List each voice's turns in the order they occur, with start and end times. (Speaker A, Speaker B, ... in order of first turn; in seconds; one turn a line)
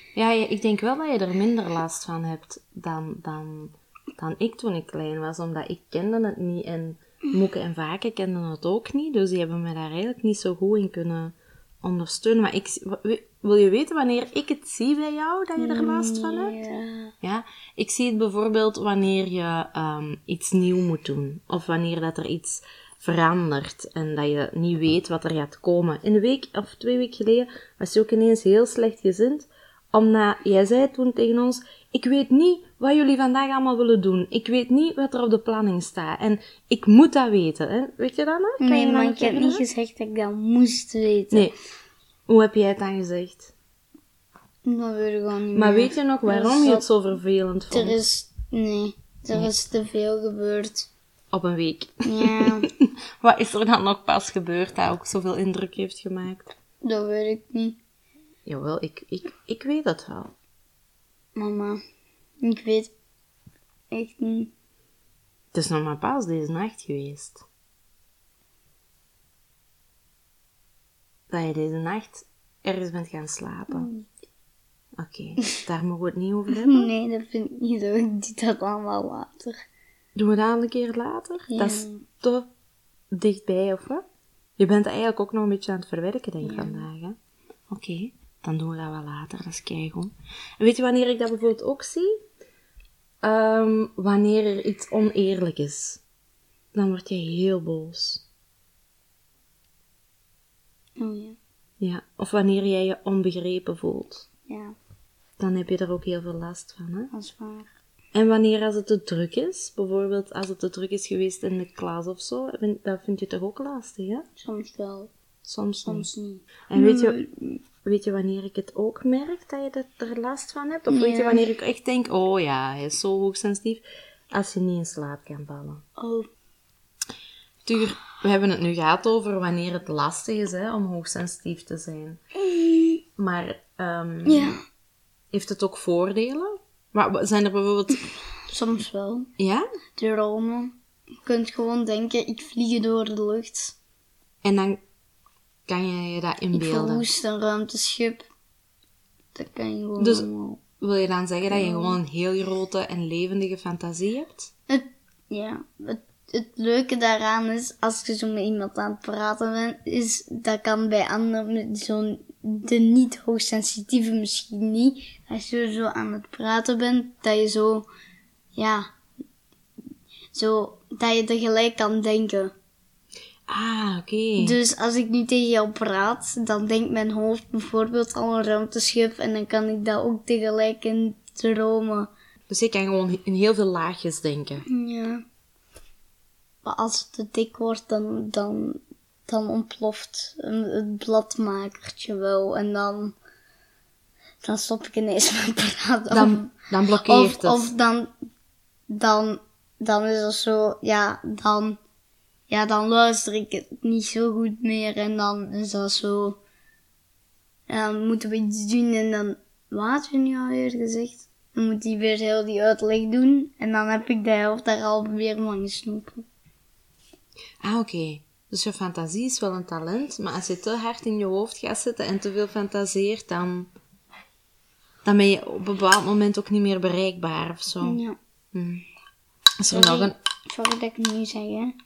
Speaker A: 0.1-16.6
Speaker B: 15.6-17.1
Speaker A: 17.2-39.6
Speaker B: 38.6-41.5
Speaker A: 42.3-43.5
Speaker B: 44.6-46.9
Speaker A: 45.5-48.0
Speaker B: 47.7-50.9
Speaker A: 51.3-56.5
Speaker B: 52.0-52.7
Speaker B: 56.8-57.8
Speaker A: 58.5-60.3
Speaker B: 61.4-61.8
Speaker B: 62.4-62.9
Speaker B: 63.9-64.5
Speaker A: 65.5-67.4
Speaker A: 71.3-73.9
Speaker B: 73.7-74.0
Speaker A: 75.0-76.9
Speaker B: 76.5-79.5
Speaker A: 80.1-82.5
Speaker B: 81.5-82.0
Speaker A: 83.1-84.0
Speaker A: 84.6-87.1
Speaker B: 86.4-86.9
Speaker A: 87.7-92.1
Speaker A: 93.2-96.0
Speaker A: 96.7-98.2
Speaker B: 101.0-101.4
Speaker A: 101.8-104.2
Speaker B: 104.5-104.7
Speaker A: 105.4-107.1
Speaker B: 107.1-107.7
Speaker A: 108.1-114.2
Speaker B: 114.4-115.1
Speaker A: 115.4-116.1
Speaker B: 115.8-117.6
Speaker A: 116.7-117.2
Speaker A: 117.8-125.8
Speaker B: 120.9-121.5
Speaker B: 126.0-126.3
Speaker A: 127.6-132.2
Speaker B: 132.5-133.0
Speaker A: 133.2-134.6
Speaker B: 134.2-134.6
Speaker A: 135.3-138.1
Speaker B: 138.5-139.3
Speaker A: 139.4-139.7
Speaker B: 139.9-143.8
Speaker A: 144.4-144.8
Speaker A: 145.7-147.1
Speaker B: 146.5-148.2
Speaker B: 149.3-150.6
Speaker A: 150.0-154.5
Speaker B: 151.5-152.0
Speaker B: 154.7-167.9
Speaker B: 168.5-168.9
Speaker B: 170.3-172.5
Speaker A: 173.5-174.6
Speaker B: 174.4-182.1
Speaker A: 182.5-184.6
Speaker B: 184.6-185.2
Speaker B: 186.6-193.1
Speaker B: 194.4-196.5
Speaker A: 196.1-197.7
Speaker B: 197.0-198.1
Speaker B: 198.9-201.8
Speaker B: 202.5-206.4
Speaker B: 207.7-216.2
Speaker A: 217.6-223.7
Speaker A: 225.0-228.0
Speaker B: 227.8-228.2
Speaker A: 228.5-228.8
Speaker A: 229.6-230.1
Speaker B: 229.7-231.8